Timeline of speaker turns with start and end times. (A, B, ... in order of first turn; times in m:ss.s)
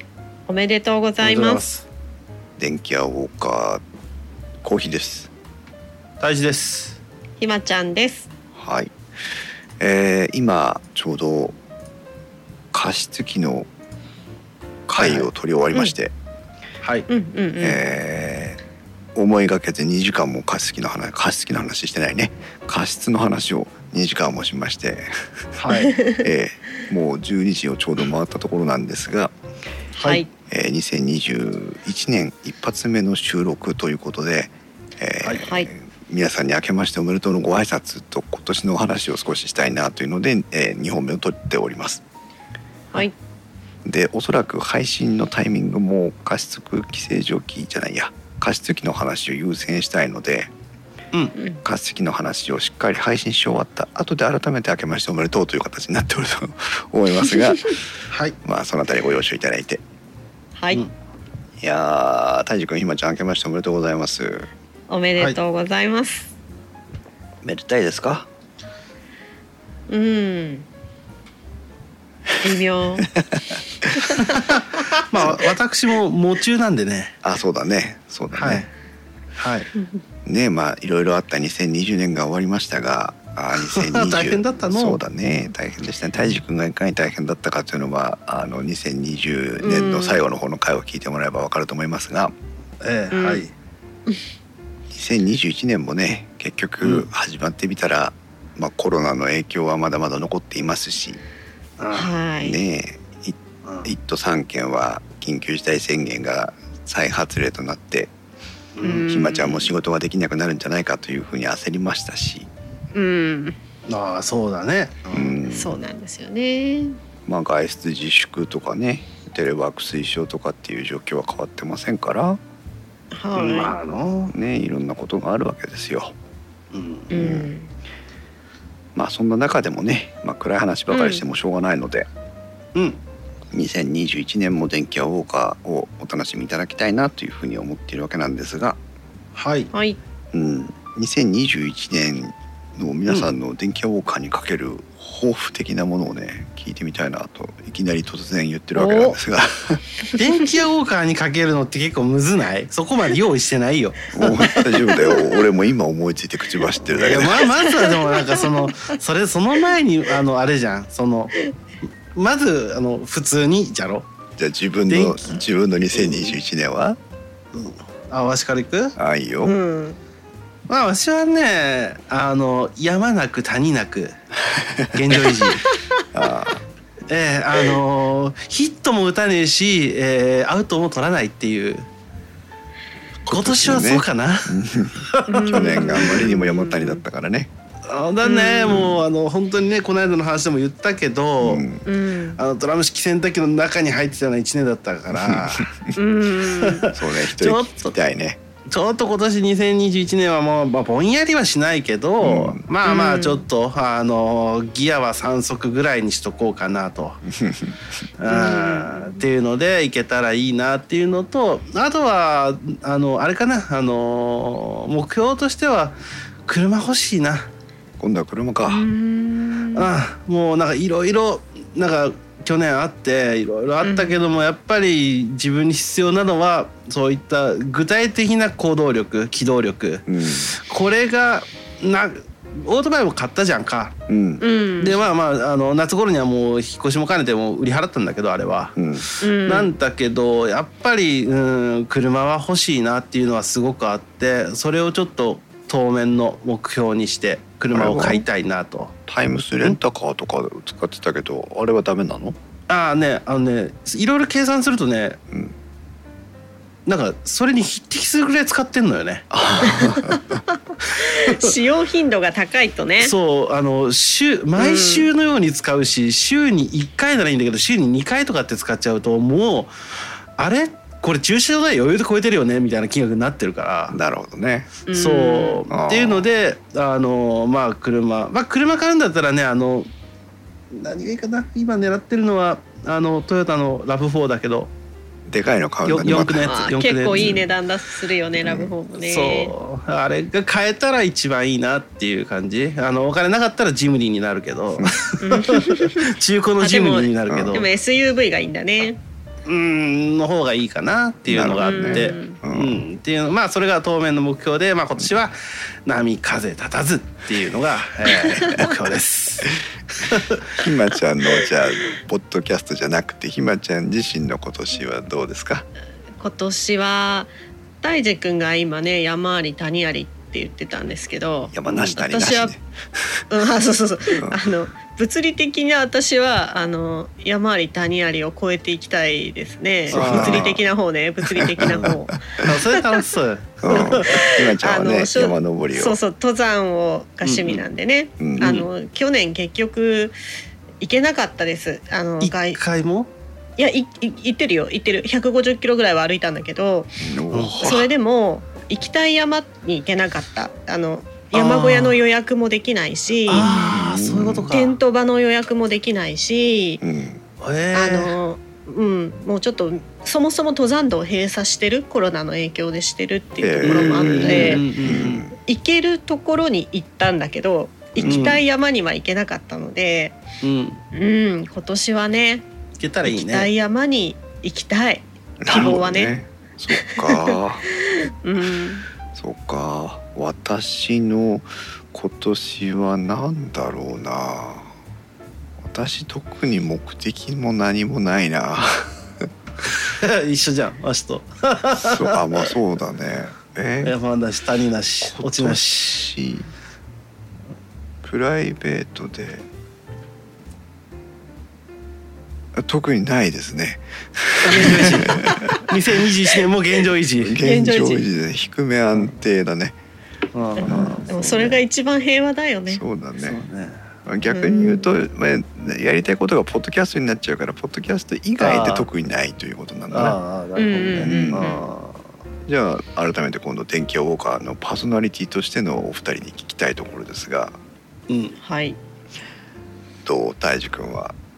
0:00.5-0:01.6 A
0:01.2-0:01.8 B
0:02.6-0:03.8 C
0:04.6-0:05.3 C
0:06.2-0:07.0 B
0:07.4-0:08.3 A
0:08.5-0:08.9 C
0:09.8-0:11.6 C
0:12.7-0:13.7 C
0:14.9-0:16.1 C
0:14.9-0:15.3 B
0:16.8-0:17.1 B
0:17.1-0:17.8 A
0:17.6-0:18.6 C
0:19.1-0:25.3 C
0:25.6-0:26.0 B
0:25.8-0:26.2 A
0:26.2-0:29.3 C
0:29.9-0:30.3 A
0:30.5-0:42.0 C
0:35.4-0:35.7 A
0:43.8-0:50.5 C
0:51.4-0:51.6 A
0:51.6-0:57.9 C
0:58.1-0:58.3 B
0:58.4-0:59.8 C
1:00.5-1:00.8 A
1:01.6-1:04.5 C
1:04.9-1:06.3 A
1:07.4-1:08.3 C
1:09.9-1:10.7 A
1:12.4-1:13.1 A
1:14.3-1:17.2 B
1:17.2-1:18.6 C
1:18.3-1:18.7 B
1:19.4-1:19.7 B
1:20.2-1:32.3 C
1:23.6-1:25.0 B
1:29.6-1:30.2 A
1:32.8-1:33.5 B
1:33.1-1:33.4 A
1:34.9-1:41.2 C
1:36.8-1:37.1 B
1:41.8-1:42.1 B
1:41.9-1:42.6 A
1:42.4-1:48.1 C
1:43.6-1:43.9 B
1:48.8-1:49.1 B
1:48.8-1:49.7 A
1:49.0-1:52.5 C
1:52.9-1:53.6 A
1:53.9-1:55.2 B
1:55.1-1:55.8 C
1:55.1-1:57.0 A
1:57.2-2:02.4 C
2:03.1-2:03.7 A
2:03.3-2:04.3 B
2:04.3-2:06.1 C
2:06.7-2:07.1 B
2:07.1-2:07.5 C
2:07.1-2:07.7 A
2:08.9-2:12.1 C
2:10.9-2:11.2 A
2:13.5-2:18.8 C
2:19.3-2:19.7 B
2:19.7-2:20.0 A
2:20.3-2:29.8 C
2:23.1-2:23.3 B
2:28.7-2:29.2 A
2:30.2-2:35.0 B
2:34.1-2:37.5 C
2:37.0-2:41.3 B
2:37.6-2:38.5 A
2:42.1-2:44.1 B
2:44.4-2:47.0 C
2:44.9-2:45.4 B
2:45.9-2:46.4 B
2:47.5-2:49.0 B
2:49.0-2:49.6 C
2:49.4-2:50.0 A
2:50.7-2:54.2 B
2:54.5-2:54.9 C
2:54.9-2:55.7 B
2:56.1-2:56.6 C
2:57.1-3:01.9 B
3:03.2-3:07.5 C
3:03.3-3:06.2 B
3:05.3-3:07.0 A
3:07.9-3:11.7 B
3:08.2-3:09.0 A
3:11.4-3:11.8 C
3:11.8-3:12.4 A
3:12.4-3:15.7 B
3:15.1-3:15.9 C
3:15.9-3:16.9 A
3:16.2-3:17.9 B
3:16.9-3:18.4 C
3:18.7-3:27.2 B
3:22.2-3:22.6 C
3:22.8-3:23.4 A
3:27.3-3:27.8 C
3:28.2-3:37.4 B
3:28.3-3:29.2 A
3:38.0-3:38.9 C
3:38.6-3:39.9 A
3:39.7-3:54.0 B
3:43.8-3:44.2 A
3:50.1-3:50.5 C
3:54.1-3:54.4 C
3:54.4-3:55.0 A
3:54.8-4:08.9 B
3:58.8-3:59.1 C
3:59.2-3:59.7 A
4:07.7-4:08.2 C
4:09.1-4:12.4 C
4:12.7-4:15.2 B
4:16.8-4:19.2 B
4:19.3-4:20.3 C
4:19.6-4:23.1 A
4:21.1-4:21.5 B
4:23.0-4:29.7 B
4:24.6-4:25.1 A
4:30.4-4:34.0 B
4:33.9-4:34.8 C
4:34.9-4:35.6 A
4:34.9-4:39.9 B
4:35.7-4:36.3 C
4:40.7-4:44.7 B
4:45.3-4:46.5 C
4:45.8-4:47.4 B
4:46.1-4:49.5 A
4:47.1-4:47.5 C
4:48.4-4:48.7 C
4:48.9-4:57.7 B
4:55.2-4:56.0 A
4:56.6-4:59.0 A
4:57.3-4:57.6 C
4:59.4-5:10.4 B
5:01.3-5:02.8 C
5:01.6-5:02.4 A
5:08.2-5:08.6 A
5:10.6-5:15.7 C
5:16.2-5:17.3 A
5:17.8-5:22.5 A
5:21.5-5:22.6 C
5:21.7-5:22.0 B
5:23.3-5:32.2 A
5:29.9-5:30.5 B
5:29.9-5:30.6 C
5:31.4-5:32.5 C
5:32.4-5:34.2 B
5:33.6-5:36.0 C
5:33.7-5:40.1 A
5:37.2-5:37.6 B
5:38.2-5:38.6 C
5:38.4-5:38.7 B
5:40.8-5:42.6 A
5:42.2-5:43.1 B
5:43.6-5:46.9 A
5:47.0-5:47.9 C
5:47.3-5:47.7 B
5:47.6-5:53.5 A
5:51.3-5:52.0 B
5:53.3-5:54.8 B
5:53.3-5:54.5 C
5:54.5-5:56.8 A
5:56.8-5:57.2 C
5:57.4-5:58.1 B
5:57.7-6:10.2 A
6:03.4-6:05.4 C
6:03.6-6:05.2 B
6:08.0-6:08.4 C
6:08.0-6:08.4 B
6:10.4-6:10.8 B
6:10.9-6:12.4 A
6:12.8-6:13.5 B
6:13.0-6:16.2 A
6:15.4-6:17.6 C
6:16.7-6:18.8 A
6:19.1-6:24.7 C
6:25.6-6:29.1 C
6:29.9-6:32.5 B
6:31.8-6:33.9 C
6:33.8-6:36.0 B
6:35.0-6:36.5 C
6:38.0-6:39.4 C
6:42.6-6:45.6 C
6:44.4-6:47.4 B
6:44.5-6:45.4 A
6:47.2-6:49.8 C
6:47.4-6:48.0 A
6:50.3-6:51.6 B
6:50.6-6:52.8 A
6:50.6-6:51.0 C
6:52.7-6:53.4 C
6:53.2-6:53.8 B
6:54.0-7:00.2 C
6:54.2-6:54.9 A
6:58.4-6:58.9 B
6:59.9-7:02.0 B
7:00.6-7:01.6 A
7:01.0-7:01.6 C
7:02.5-7:07.6 C
7:08.1-7:08.4 B
7:08.4-7:08.8 A
7:10.0-7:11.2 C